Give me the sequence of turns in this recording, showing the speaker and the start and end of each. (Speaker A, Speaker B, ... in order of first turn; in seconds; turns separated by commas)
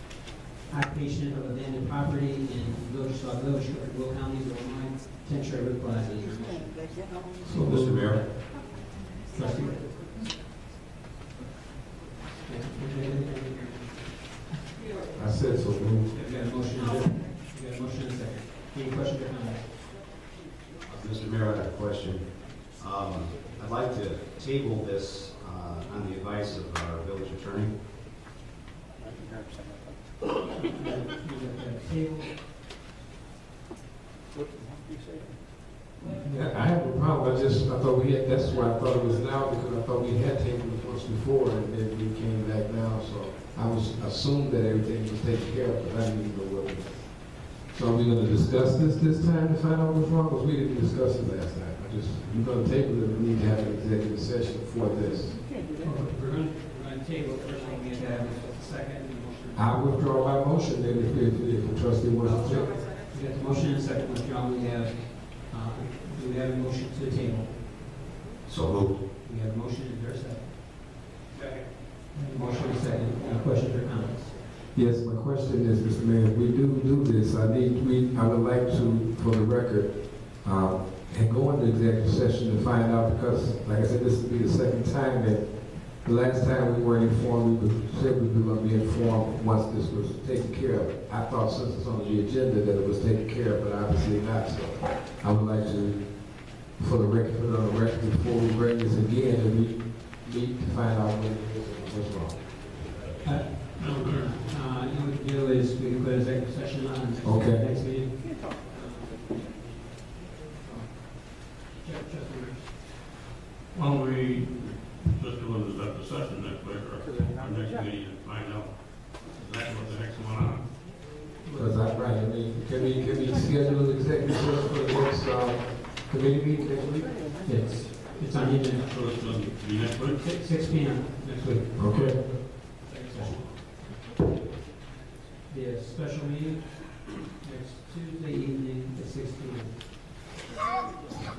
Speaker A: 0.7-7.0, Speaker B: 7.4-8.2, Speaker C: 7.5-8.2, Speaker A: 9.3-9.9, Speaker A: 12.4-14.1, Speaker B: 15.1-16.1, Speaker A: 16.1-19.7, Speaker C: 20.9-27.7, Speaker A: 30.5-32.3, Speaker B: 36.0-55.5, Speaker A: 55.8-59.9, Speaker B: 59.5-62.7, Speaker A: 63.0-67.7, Speaker C: 68.4-69.0, Speaker A: 69.2-70.5, Speaker A: 72.1-74.4, Speaker B: 74.7-102.5, Speaker A: 103.2-109.7, Speaker D: 103.4-104.4, Speaker B: 107.2-107.6, Speaker A: 110.6-112.7, Speaker D: 113.7-120.7, Speaker A: 121.4-121.9, Speaker B: 121.5-127.3, Speaker A: 127.4-128.9, Speaker D: 128.8-130.2, Speaker A: 130.2-131.8, Speaker B: 131.7-132.2, Speaker D: 131.9-132.4, Speaker A: 132.8-133.4, Speaker D: 133.1-133.6, Speaker A: 135.5-139.8